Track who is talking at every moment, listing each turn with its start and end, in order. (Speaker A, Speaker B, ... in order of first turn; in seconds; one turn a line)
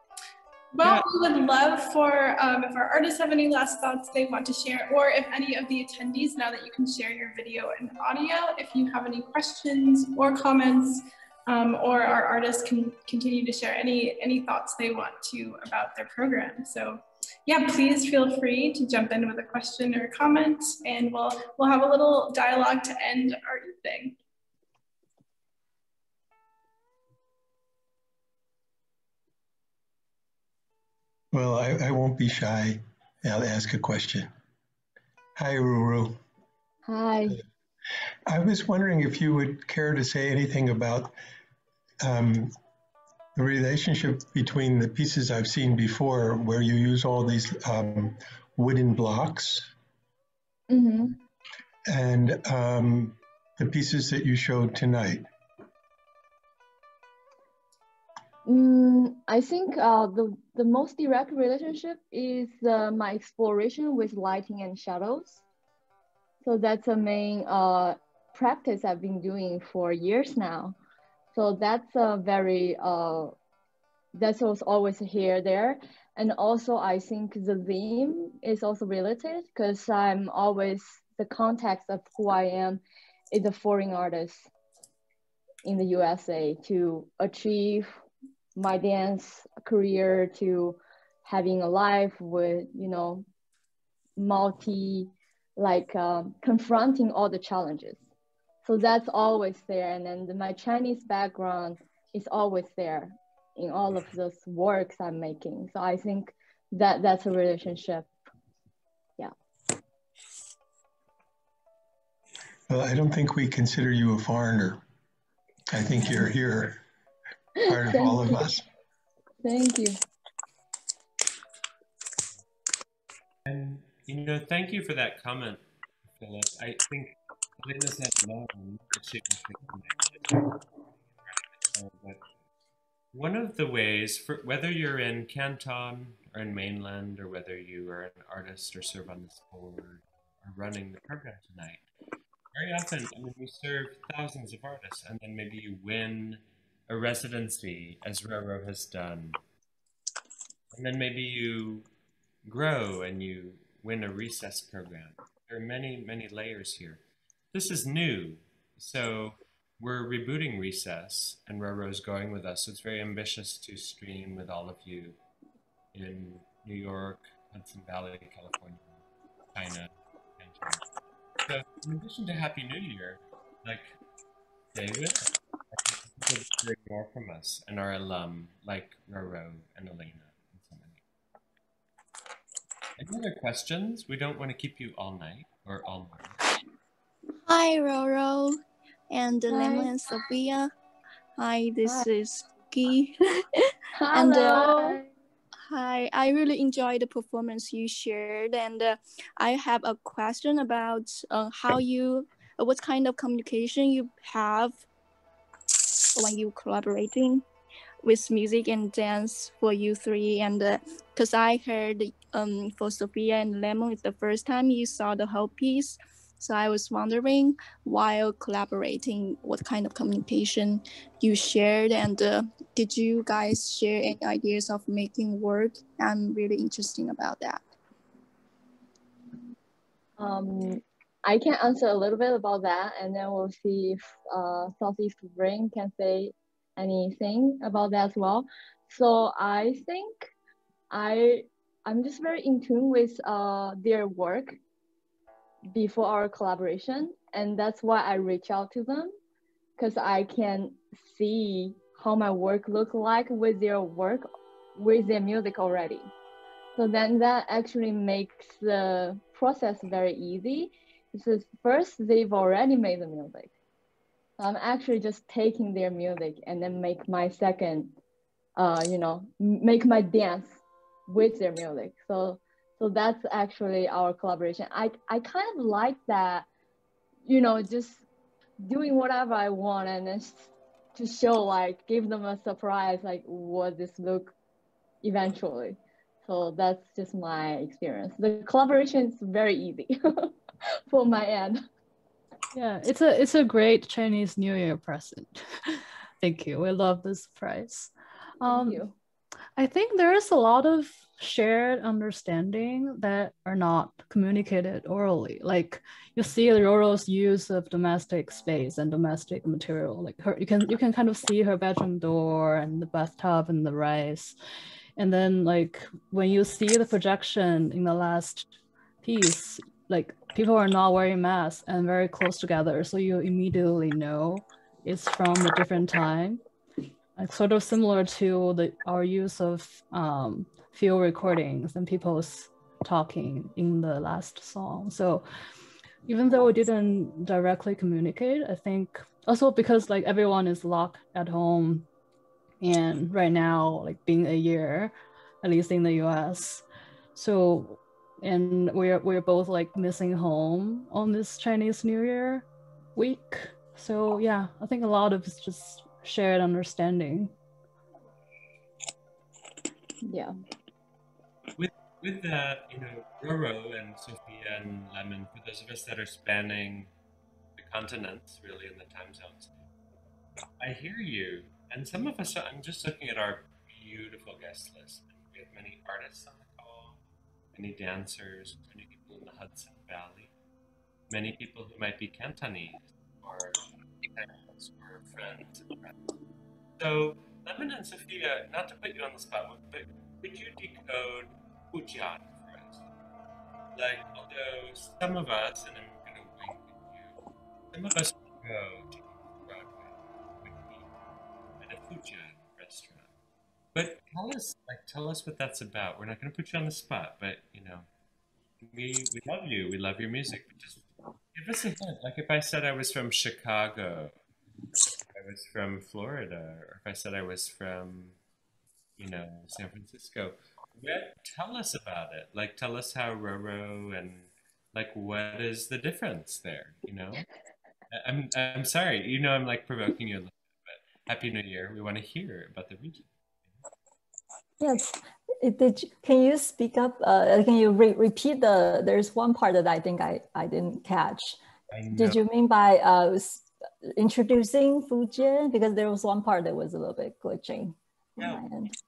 Speaker A: 0.8-24.2
Speaker B: 0.8-1.1
Speaker C: 31.3-34.3
Speaker C: 35.4-36.2
Speaker D: 36.9-37.4
Speaker C: 38.3-41.1
Speaker C: 42.0-42.5
Speaker C: 43.4-49.7
Speaker D: 50.7-51.2
Speaker C: 51.9-55.3
Speaker D: 58.5-65.4
Speaker D: 66.4-70.8
Speaker D: 71.3-73.3
Speaker D: 74.2-84.5
Speaker D: 85.6-88.0
Speaker D: 88.6-93.3
Speaker D: 94.2-98.0
Speaker D: 98.6-108.1
Speaker C: 112.7-114.8
Speaker C: 115.7-116.8
Speaker D: 117.7-118.5
Speaker C: 117.7-118.6
Speaker D: 119.4-120.0
Speaker B: 123.5-130.5
Speaker B: 131.3-132.2
Speaker B: 133.1-141.9
Speaker B: 142.5-149.4
Speaker B: 150.7-151.9
Speaker B: 152.4-157.0
Speaker B: 157.5-165.2
Speaker B: 165.9-170.8
Speaker B: 171.4-174.0
Speaker B: 174.7-181.0
Speaker B: 183.0-186.4
Speaker E: 187.4-190.7
Speaker D: 189.5-189.9
Speaker E: 191.4-193.4
Speaker D: 193.9-195.0
Speaker E: 194.1-195.0
Speaker E: 195.7-204.9
Speaker E: 206.2-207.4
Speaker E: 208.0-227.7
Speaker D: 230.2-240.3
Speaker D: 240.9-244.6
Speaker D: 245.7-249.1
Speaker D: 249.8-256.1
Speaker D: 256.8-263.5
Speaker D: 264.4-267.9
Speaker D: 268.6-276.5
Speaker D: 277.2-278.0
Speaker D: 278.6-284.3
Speaker D: 285.0-290.3
Speaker D: 290.9-291.6
Speaker F: 292.5-297.9
Speaker D: 298.4-298.9
Speaker F: 298.4-298.8
Speaker F: 299.6-314.4
Speaker F: 315.0-326.4
Speaker F: 327.2-335.2
Speaker F: 336.1-341.9
Speaker F: 342.6-346.6
Speaker F: 347.2-357.3
Speaker D: 360.0-360.3
Speaker B: 361.6-366.9
Speaker B: 367.6-369.5
Speaker B: 370.6-377.0
Speaker B: 377.5-380.3
Speaker B: 381.1-385.8
Speaker B: 386.8-392.8
Speaker B: 393.8-397.2
Speaker B: 397.7-400.9
Speaker B: 401.6-403.1
Speaker B: 403.7-407.9
Speaker B: 408.6-414.1
Speaker B: 415.1-418.2
Speaker B: 419.0-427.2
Speaker B: 427.9-433.1
Speaker G: 434.6-441.4
Speaker B: 441.7-442.2
Speaker G: 441.9-448.7
Speaker B: 448.2-448.4